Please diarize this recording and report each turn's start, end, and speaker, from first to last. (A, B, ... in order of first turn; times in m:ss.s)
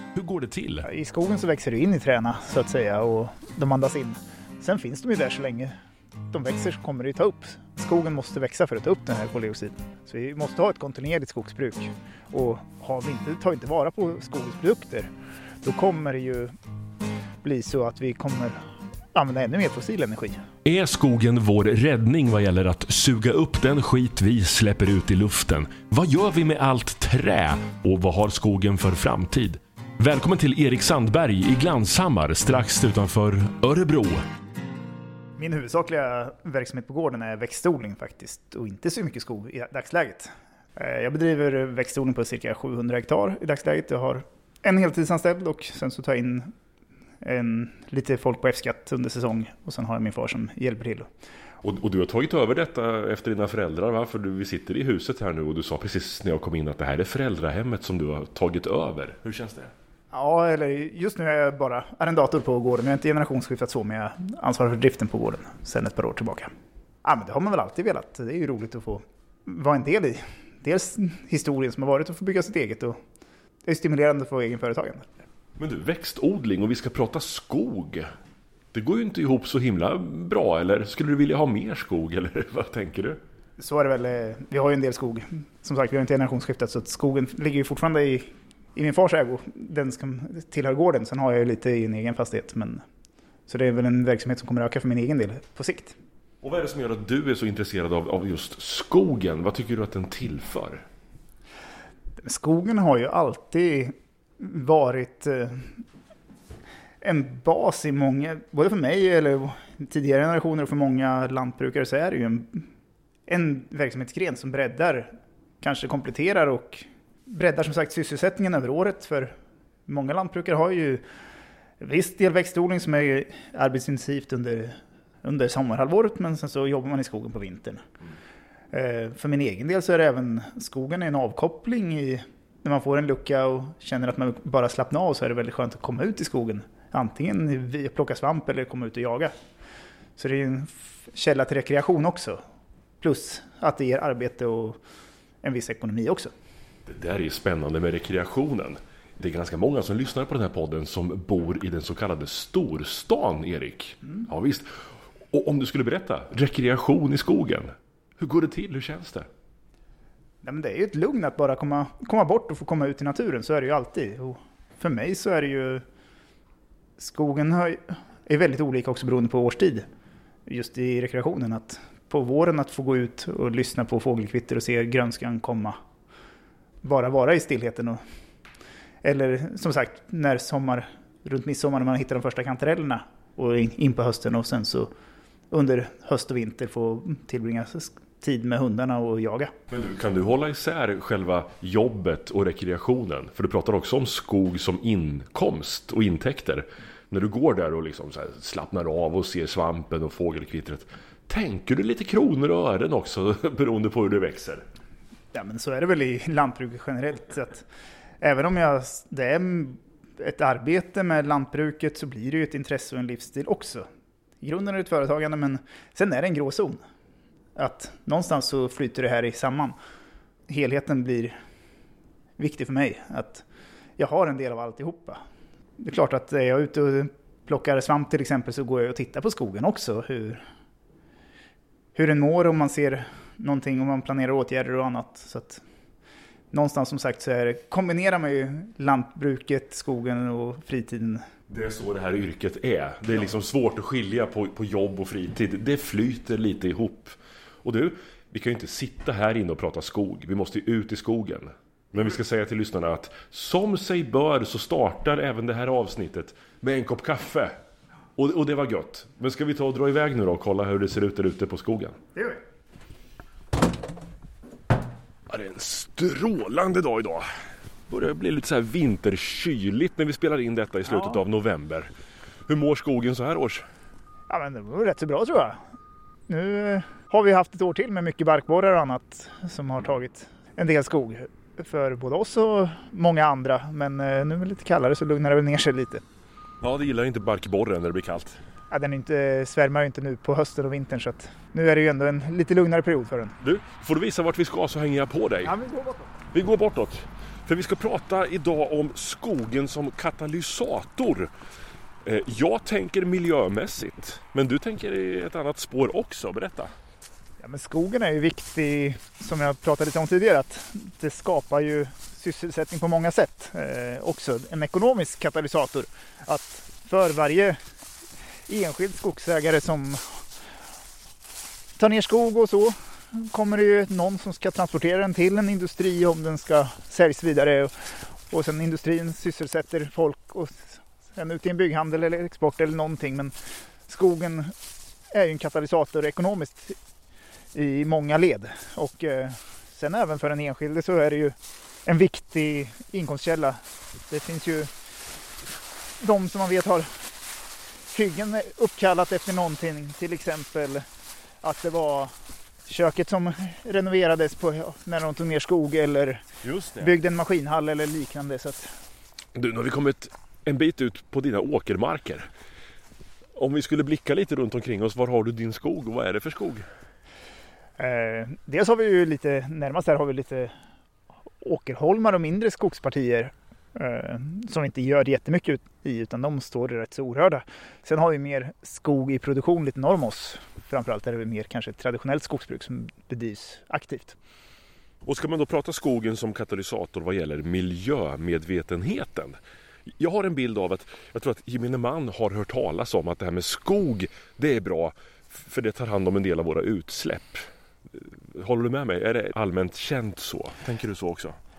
0:00.1-0:00.9 A
0:00.8-0:05.7 B
0:06.3-0:15.1 B
0:15.6-0:16.5 B
0:17.4-0:18.6 B
0:19.1-0:20.4 B
0:20.6-0:34.2 A
0:35.4-0:46.5 B
0:47.2-0:51.1 B
0:51.6-0:59.7 A
1:00.1-1:06.5 B
1:07.0-1:13.0 B
1:13.6-1:15.1 B
1:15.6-1:18.1 A
1:18.7-1:23.2 A
1:23.6-1:32.8 B
1:33.5-1:36.0 B
1:36.4-1:40.8 A
1:42.2-1:45.8 B
1:47.0-1:52.7 B
1:53.3-1:59.3 B
1:59.9-2:01.0 B
2:01.8-2:07.8 B
2:08.7-2:19.3 B
2:20.2-2:22.4 B
2:23.0-2:24.8 B
2:25.4-2:26.3 B
2:26.9-2:39.3 A
2:40.4-2:45.8 B
2:47.0-2:49.8 B
2:50.5-2:55.8 B
2:56.8-2:58.0 B
2:59.0-3:04.9 B
3:05.5-3:09.5 B
3:09.7-3:24.6 A
3:25.3-3:27.7 B
3:28.2-3:33.9 B
3:34.4-3:36.8 B
3:37.5-3:39.8 B
3:40.5-3:41.3 B
3:42.4-3:43.4 B
3:44.0-3:45.2 B
3:45.8-3:50.4 B
3:51.9-3:55.6 B
3:56.5-4:01.2 B
4:01.5-4:17.6 A
4:18.2-4:22.0 A
4:22.2-4:22.4 B
4:25.3-4:27.3 A
4:27.9-4:31.9 A
4:30.9-4:31.2 B
4:32.5-4:33.6 A
4:34.3-4:35.6 B
4:36.3-4:46.0 B
4:46.6-4:48.4 A
4:48.7-4:53.4 B
4:53.4-4:55.5 A
4:55.4-4:56.1 B
4:56.3-5:01.3 A
5:02.0-5:06.7 A
5:07.4-5:17.6 B
5:18.5-5:20.2 B
5:21.8-5:33.3 B
5:33.9-5:34.5 B
5:35.1-5:36.7 B
5:37.5-5:44.7 B
5:46.0-5:47.1 B
5:47.9-5:50.8 B
5:51.4-5:52.1 B
5:52.6-5:56.2 B
5:56.4-5:57.0 A
5:56.8-5:58.7 B
5:59.3-6:02.3 A
6:03.4-6:06.6 A
6:07.8-6:10.5 B
6:11.4-6:24.2 B
6:25.0-6:41.4 A